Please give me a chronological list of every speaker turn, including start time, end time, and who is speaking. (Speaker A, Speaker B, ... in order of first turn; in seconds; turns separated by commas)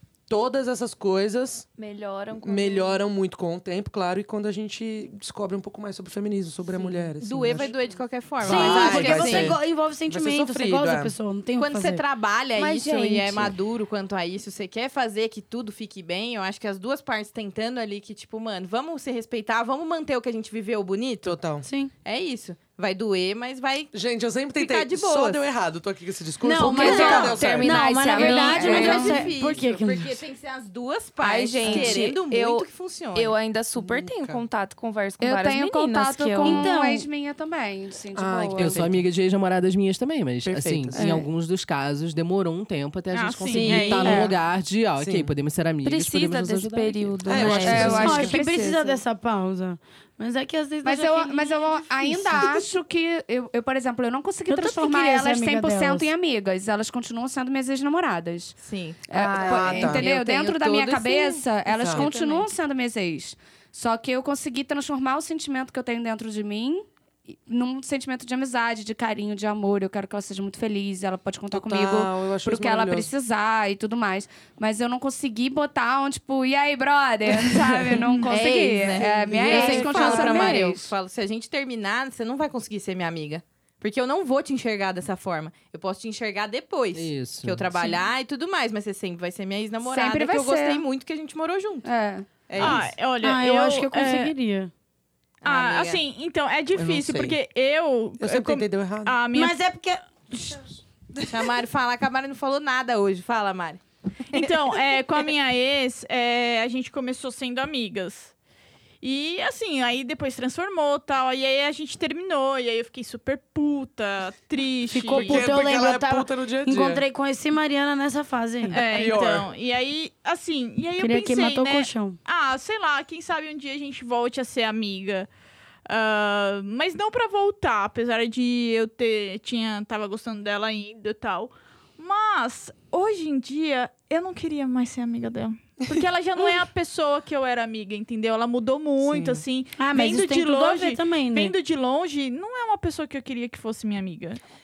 Speaker A: 0.3-1.6, Speaker B: 1.8-3.0, Speaker A: 2.4-7.7, Speaker B: 6.7-7.8, Speaker C: 7.2-9.6, Speaker A: 8.4-11.1, Speaker D: 8.4-12.0, Speaker C: 11.6-21.4, Speaker B: 12.6-13.5, Speaker A: 21.2-21.7, Speaker D: 21.6-21.9, Speaker C: 22.0-23.9, Speaker A: 23.9-27.9, Speaker C: 24.6-25.5, Speaker D: 26.4-30.2, Speaker B: 26.6-29.2, Speaker C: 26.8-27.3, Speaker C: 28.1-33.3, Speaker E: 28.2-29.2, Speaker B: 31.2-36.7, Speaker A: 33.8-34.4, Speaker E: 35.2-38.8, Speaker D: 36.4-37.0, Speaker A: 38.1-39.0, Speaker F: 38.6-48.1, Speaker A: 40.5-41.0, Speaker E: 40.9-41.3, Speaker G: 43.1-44.3, Speaker C: 43.5-44.3, Speaker E: 44.0-44.3, Speaker A: 45.0-45.3, Speaker B: 45.8-48.4, Speaker A: 47.3-48.4, Speaker E: 47.5-49.0, Speaker D: 47.8-52.7, Speaker E: 50.8-66.8, Speaker D: 54.5-56.1, Speaker C: 58.6-60.6, Speaker B: 59.1-61.4, Speaker A: 59.3-60.0, Speaker A: 61.8-62.1, Speaker B: 61.9-62.4, Speaker C: 62.0-62.4, Speaker E: 67.5-80.9, Speaker A: 71.5-73.1, Speaker G: 77.9-78.4, Speaker C: 78.3-91.9, Speaker D: 79.4-80.5, Speaker F: 86.9-87.7, Speaker E: 89.8-90.8, Speaker E: 91.8-92.3, Speaker C: 92.5-92.9, Speaker G: 92.6-94.3, Speaker A: 92.6-92.9, Speaker D: 93.2-94.7, Speaker C: 95.4-96.0, Speaker G: 95.4-99.6, Speaker A: 96.7-97.4, Speaker A: 98.2-99.2, Speaker D: 99.3-100.6, Speaker C: 101.3-103.8, Speaker G: 104.3-108.3, Speaker G: 109.0-115.5, Speaker D: 114.9-119.0, Speaker A: 115.1-117.0, Speaker G: 118.7-125.3, Speaker A: 118.7-119.5, Speaker D: 121.0-122.2, Speaker G: 125.9-144.4, Speaker A: 139.0-139.4, Speaker D: 139.8-141.5